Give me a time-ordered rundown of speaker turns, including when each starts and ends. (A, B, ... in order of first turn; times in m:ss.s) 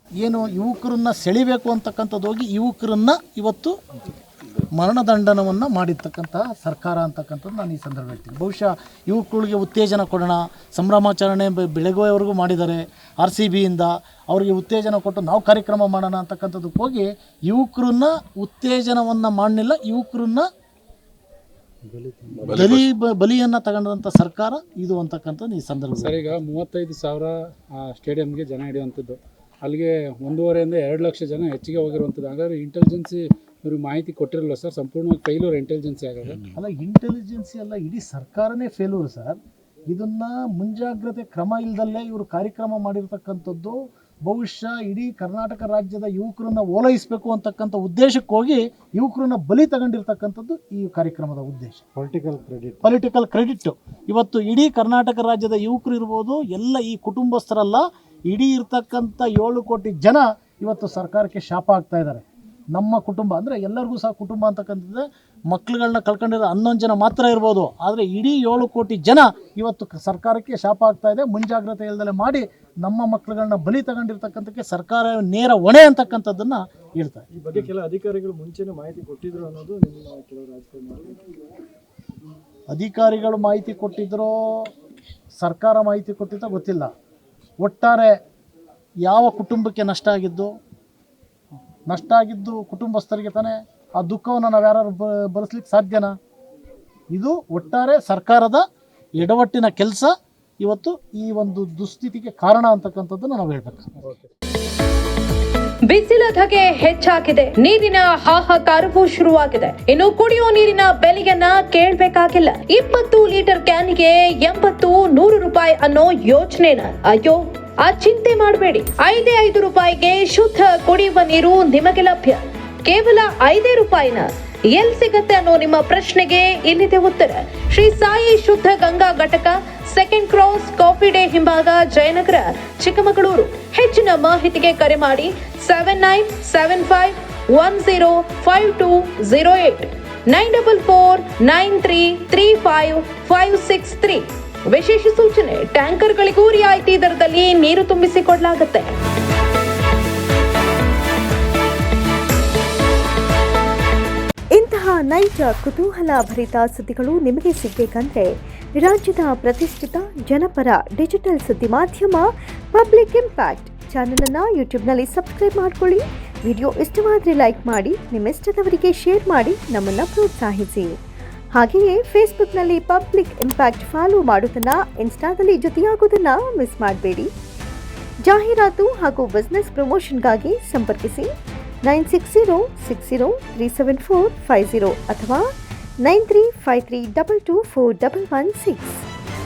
0:00.2-0:03.8 A
0:04.7-0:20.5 A
0:21.8-0:22.8 B
0:22.5-0:26.4 A
0:26.0-0:36.4 B
0:36.5-0:39.4 A
0:39.9-0:51.9 A
0:52.0-0:52.8 C
0:52.8-1:02.2 A
1:02.8-1:17.2 A
1:17.4-1:21.1 C
1:22.7-1:24.6 A
1:25.4-1:26.9 A
1:27.6-1:28.2 A
1:29.0-1:30.5 A
1:31.9-1:36.1 A
1:37.1-1:38.6 A
1:39.2-1:43.9 A
1:45.9-2:29.0 D
2:34.6-2:51.0 E
2:51.5-2:57.3 E
2:58.2-3:01.3 E
3:01.8-3:05.5 E
3:06.0-3:09.0 E